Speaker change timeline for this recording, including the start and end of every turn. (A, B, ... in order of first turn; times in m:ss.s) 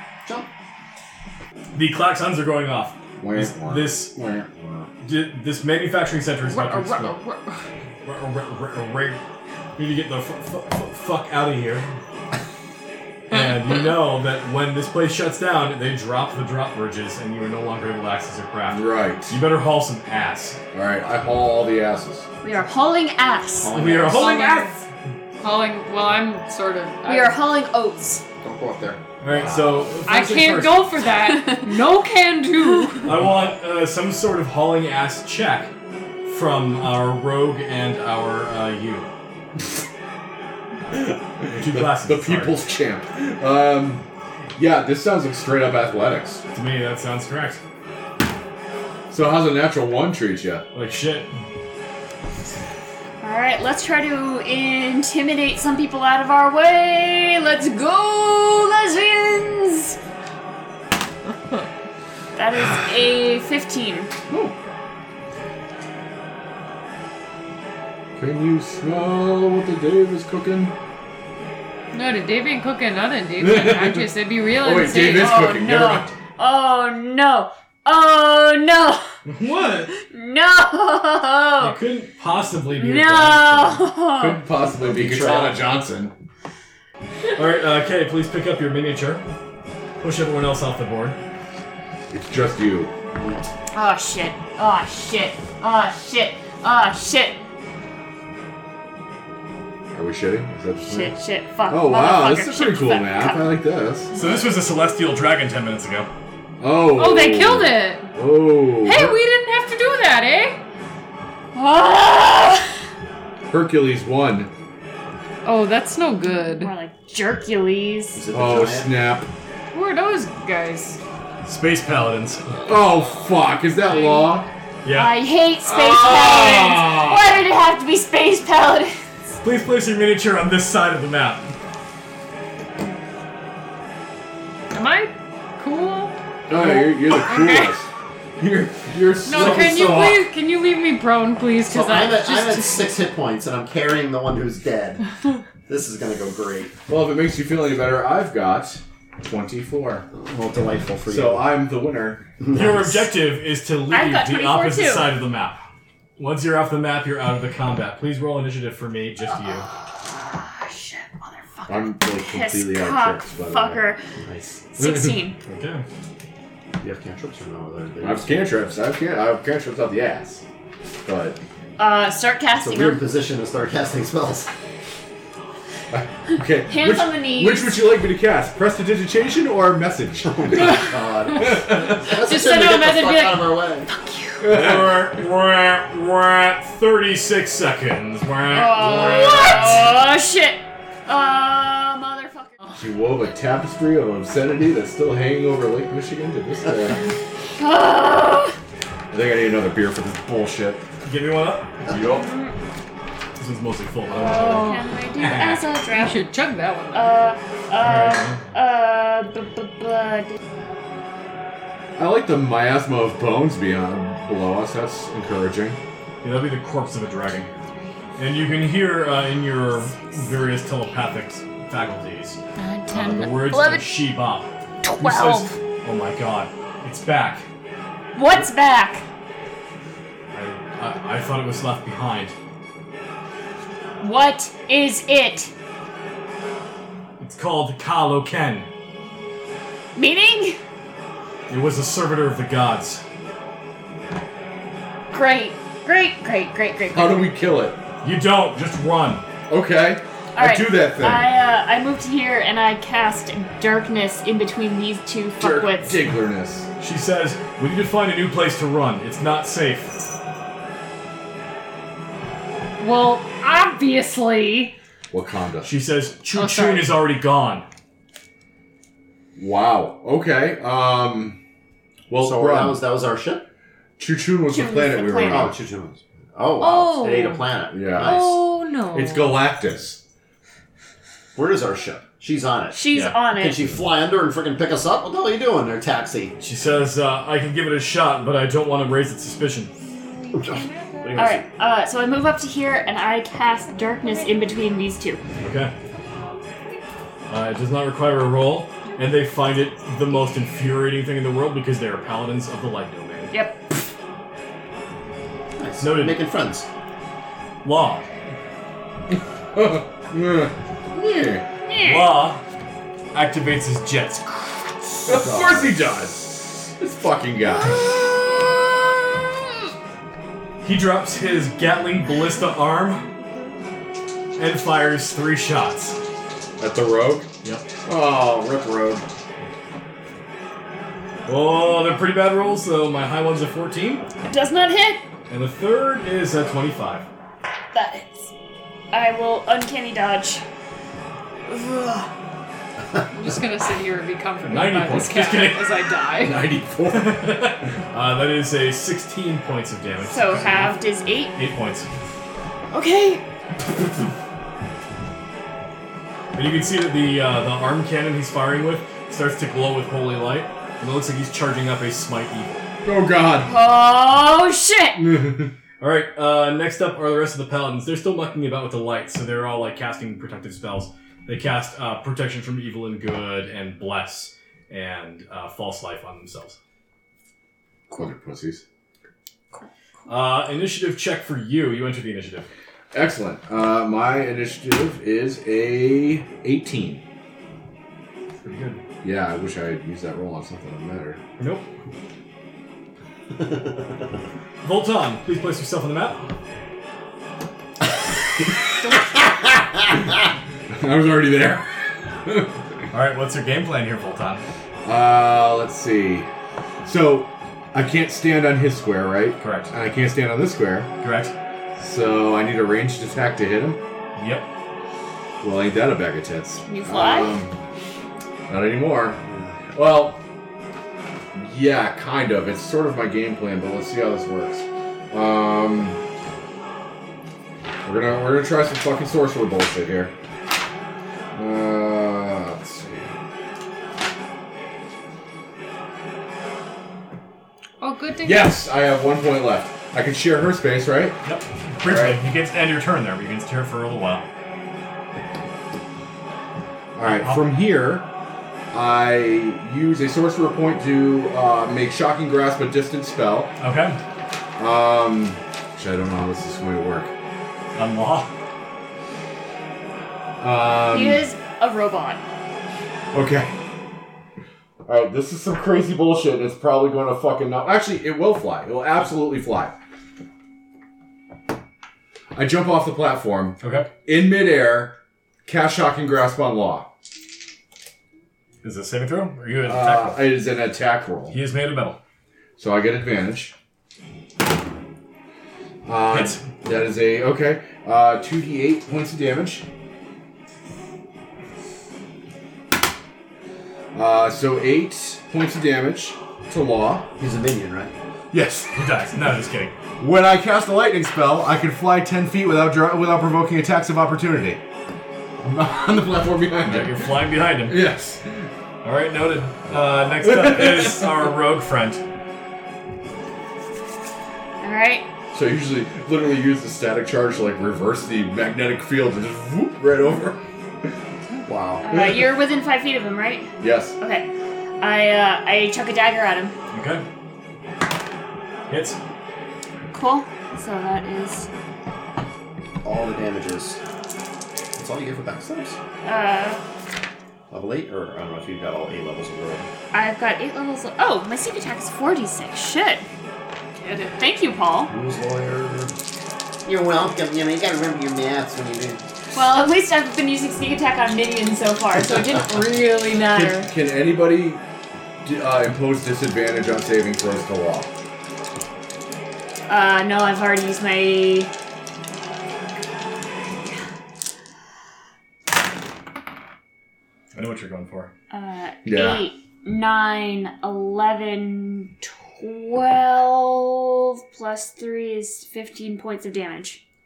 0:00.2-0:00.5 A
0:01.7-0:04.1 B
0:03.2-0:04.9 C
0:05.0-0:07.2 B
0:06.4-0:07.6 D
0:08.0-0:09.2 B
0:09.8-0:12.0 B
0:13.3-0:20.6 B
0:18.7-0:19.4 C
0:20.7-0:22.3 C
0:22.4-0:24.7 E
0:23.6-0:24.3 A
0:23.7-0:24.7 B
0:24.1-0:24.8 D
0:25.4-0:27.4 D
0:27.0-0:28.2 E
0:28.4-0:29.0 A
0:29.2-0:31.0 B
0:29.3-0:29.7 C
0:30.1-0:33.1 D
0:33.0-0:35.7 B
0:36.2-0:39.1 B
0:40.9-0:46.4 C
0:41.5-0:42.6 B
0:46.5-0:47.6 B
0:49.1-0:50.6 C
0:50.7-0:51.3 B
0:53.2-1:00.0 E
1:02.3-1:04.1 E
1:04.3-1:04.5 C
1:08.2-1:10.7 C
1:11.9-1:15.3 D
1:13.4-1:14.1 C
1:14.6-1:16.1 C
1:15.1-1:19.1 E
1:19.2-1:19.9 B
1:19.9-1:21.8 E
1:21.6-1:23.8 B
1:22.7-1:24.4 E
1:24.2-1:26.1 C
1:24.8-1:25.6 A
1:27.3-1:29.2 B
1:30.0-1:31.2 B
1:32.1-1:32.9 C
1:33.7-1:37.4 E
1:39.9-1:41.2 C
1:40.9-1:43.6 E
1:41.7-1:44.1 C
1:44.1-1:46.1 B
1:46.6-1:49.2 C
1:46.9-1:48.1 D
1:48.8-1:50.6 D
1:51.5-1:52.7 E
1:53.5-1:54.5 C
1:55.4-1:56.7 D
1:56.5-1:58.2 E
1:58.1-1:58.9 A
1:58.3-1:59.3 C
1:59.7-2:01.0 D
2:01.4-2:02.6 B
2:02.6-2:04.5 C
2:04.0-2:04.3 D
2:04.8-2:05.2 B
2:04.9-2:09.0 E
2:05.6-2:07.3 C
2:09.4-2:11.5 B
2:14.7-2:17.7 D
2:16.5-2:17.9 C
2:18.4-2:20.2 C
2:19.2-2:22.9 D
2:19.4-2:20.1 A
2:21.7-2:25.0 A
2:25.7-2:26.7 A
2:26.9-2:30.1 C
2:30.1-2:31.5 A
2:31.1-2:32.3 C
2:32.4-2:33.0 A
2:32.5-2:35.6 B
2:33.9-2:35.1 E
2:36.2-2:39.6 B
2:40.0-2:44.0 E
2:41.7-2:43.8 C
2:44.2-2:44.5 A
2:44.7-2:45.4 E
2:44.8-2:45.1 C
2:45.4-2:45.8 B
2:46.8-2:48.3 A
2:48.0-2:50.4 C
2:51.0-2:51.4 C
2:51.8-2:53.0 E
2:52.6-2:54.5 A
2:55.9-3:00.9 C
2:56.6-2:57.9 E
3:00.2-3:03.9 A
3:01.4-3:01.9 C
3:02.2-3:03.4 D
3:02.2-3:03.0 E
3:03.9-3:04.5 E
3:04.4-3:05.2 C
3:04.5-3:09.9 B
3:08.5-3:12.7 E
3:12.7-3:17.0 C
3:17.6-3:18.5 E
3:19.1-3:20.8 C
3:21.0-3:21.8 B
3:21.9-3:22.3 C
3:21.9-3:22.5 E
3:23.4-3:25.7 B
3:24.1-3:26.2 E
3:24.3-3:24.8 D
3:25.8-3:27.2 D
3:26.9-3:30.4 E
3:27.8-3:28.4 B
3:32.0-3:35.8 C
3:36.2-3:37.5 B
3:38.2-3:42.4 B
3:42.6-3:44.0 E
3:42.9-3:47.4 B
3:44.8-3:45.5 E
3:48.1-3:49.0 E
3:50.3-3:52.3 B
3:54.0-3:55.5 E
3:57.2-3:58.7 B
3:59.9-4:00.6 E
4:01.5-4:03.0 B
4:05.1-4:07.3 E
4:06.9-4:07.8 C
4:08.0-4:09.2 B
4:09.5-4:11.4 C
4:10.4-4:16.0 E
4:15.4-4:16.7 C
4:16.8-4:20.0 B
4:22.8-4:24.7 D
4:25.1-4:25.7 C
4:25.6-4:27.6 B
4:26.3-4:26.9 D
4:29.4-4:31.4 C
4:32.1-4:32.8 C
4:32.1-4:33.5 A
4:34.0-4:35.6 C
4:34.5-4:35.5 E
4:35.2-4:38.4 A
4:36.6-4:39.4 D
4:37.7-4:40.0 C
4:41.3-4:42.8 A
4:42.7-4:43.7 E
4:42.9-4:43.2 B
4:43.3-4:46.3 A
4:46.4-4:49.7 B
4:50.4-4:50.6 A
4:50.4-4:51.1 D
4:51.1-4:55.2 E
4:55.4-4:55.7 B
4:57.3-5:03.3 B
5:03.3-5:03.6 E
5:05.6-5:06.7 A
5:05.8-5:06.2 B
5:07.6-5:08.1 B
5:09.5-5:11.4 C
5:11.6-5:12.2 E
5:11.8-5:12.4 B
5:13.1-5:15.4 B
5:15.0-5:17.8 C
5:15.2-5:15.7 A
5:20.6-5:23.0 B
5:24.4-5:26.0 B
5:26.6-5:27.3 C
5:27.4-5:27.7 B
5:27.8-5:29.0 C
5:31.2-5:34.0 B
5:34.3-5:35.0 E
5:35.3-5:37.0 B
5:37.7-5:38.3 E
5:38.9-5:40.4 E
5:41.5-5:42.1 E
5:43.1-5:46.5 D
5:44.4-5:45.8 B
5:46.2-5:47.2 C
5:46.8-5:50.8 B
5:50.1-5:51.4 E
5:51.3-5:51.9 B
5:52.7-5:53.2 E
5:56.3-6:02.6 B
6:02.8-6:03.5 C
6:03.4-6:05.0 E
6:05.0-6:05.5 C
6:05.8-6:16.6 B
6:17.9-6:18.6 C
6:20.1-6:22.5 B
6:22.9-6:27.0 C
6:28.4-6:28.8 B
6:29.0-6:31.2 C
6:31.4-6:31.7 B
6:34.6-6:36.3 B
6:40.7-6:41.6 C
6:42.9-6:44.4 B
6:44.8-6:46.3 C
6:46.8-6:50.9 C
6:49.4-6:49.7 B
6:51.0-6:51.3 B
6:51.8-6:53.8 C
6:54.2-6:54.5 B
6:55.4-6:57.5 C
6:56.6-6:57.3 E
6:58.5-6:59.2 C
6:59.3-6:59.5 A
6:59.7-7:00.2 C
7:01.4-7:06.0 C
7:07.8-7:10.1 C
7:11.3-7:13.2 C
7:17.8-7:18.6 D
7:18.2-7:21.2 C
7:21.2-7:24.2 B
7:21.8-7:22.2 C
7:27.0-7:28.1 C
7:27.0-7:27.5 B
7:28.7-7:33.5 C
7:33.6-7:34.0 B
7:34.6-7:37.1 C
7:37.7-7:38.3 B
7:40.4-7:41.2 C
7:40.8-7:42.2 E
7:43.1-7:43.5 C
7:44.8-7:49.7 C
7:52.3-7:56.9 C
7:53.6-7:53.9 B
7:58.6-8:00.3 B
7:59.6-8:01.4 C
8:01.3-8:02.0 B
8:02.6-8:03.5 C
8:05.8-8:09.6 C
8:06.1-8:06.4 B
8:13.9-8:17.1 C
8:17.2-8:17.9 A
8:18.3-8:18.8 C
8:18.8-8:19.7 B
8:20.0-8:24.6 C
8:25.4-8:28.5 C
8:26.6-8:27.8 B
8:28.8-8:32.0 B
8:30.1-8:31.1 C
8:34.6-8:35.1 E
8:35.3-8:40.4 C
8:41.4-8:41.8 A
8:41.8-8:44.3 E
8:41.9-8:42.3 C
8:43.6-8:43.9 C
8:44.8-8:46.5 E
8:46.7-8:47.0 B
8:48.7-8:49.0 B
8:49.9-8:51.5 E
8:52.8-8:53.8 A
8:54.8-8:55.8 A
8:56.0-8:56.6 E
8:57.5-8:59.7 A
8:59.9-9:03.0 E
9:03.8-9:04.2 D
9:04.2-9:04.9 E
9:04.9-9:05.9 A
9:06.6-9:09.0 A
9:09.3-9:13.7 E
9:13.2-9:14.6 C
9:15.2-9:17.9 C
9:19.7-9:21.5 E
9:27.3-9:28.1 B
9:28.3-9:36.8 E
9:28.8-9:29.3 C